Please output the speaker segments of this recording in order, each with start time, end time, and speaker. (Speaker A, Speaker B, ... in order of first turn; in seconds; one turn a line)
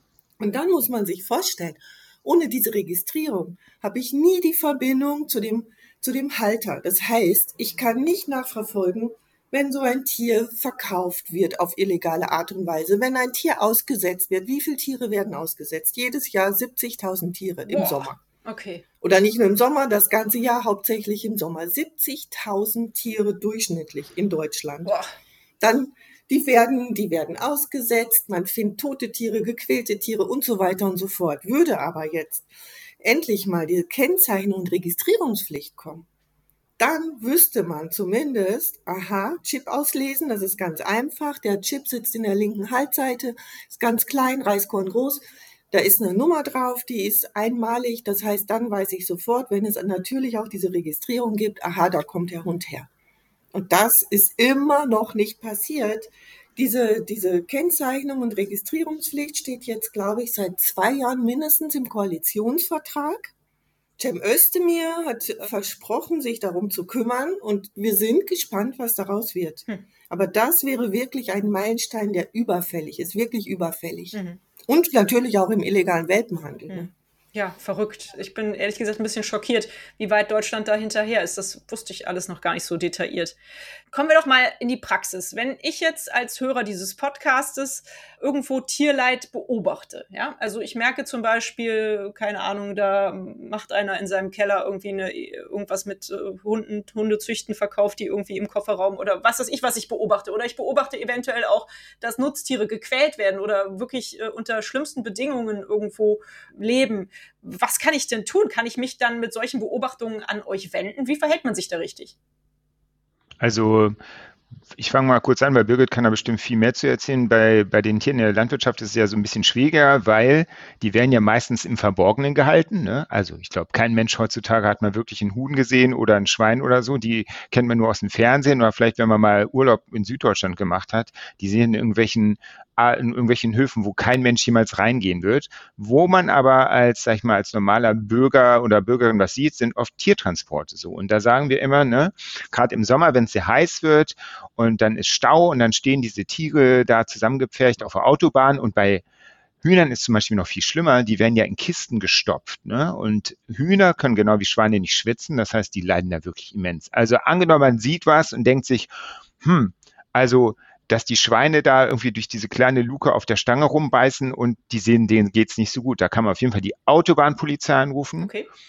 Speaker A: 0.4-18.2
Speaker B: 17.7-18.8
Speaker A: 19.0-24.9
Speaker B: 24.8-25.1
Speaker A: 25.6-32.5
Speaker A: 33.0-36.0
Speaker A: 36.8-52.9
Speaker A: 53.5-63.3
Speaker A: 64.0-76.9
Speaker B: 74.1-74.4
Speaker B: 76.7-83.3
Speaker B: 83.9-112.1
Speaker C: 113.4-114.0
Speaker C: 114.8-149.0
Speaker C: 149.6-158.9
Speaker C: 159.4-168.3
Speaker B: 168.2-168.5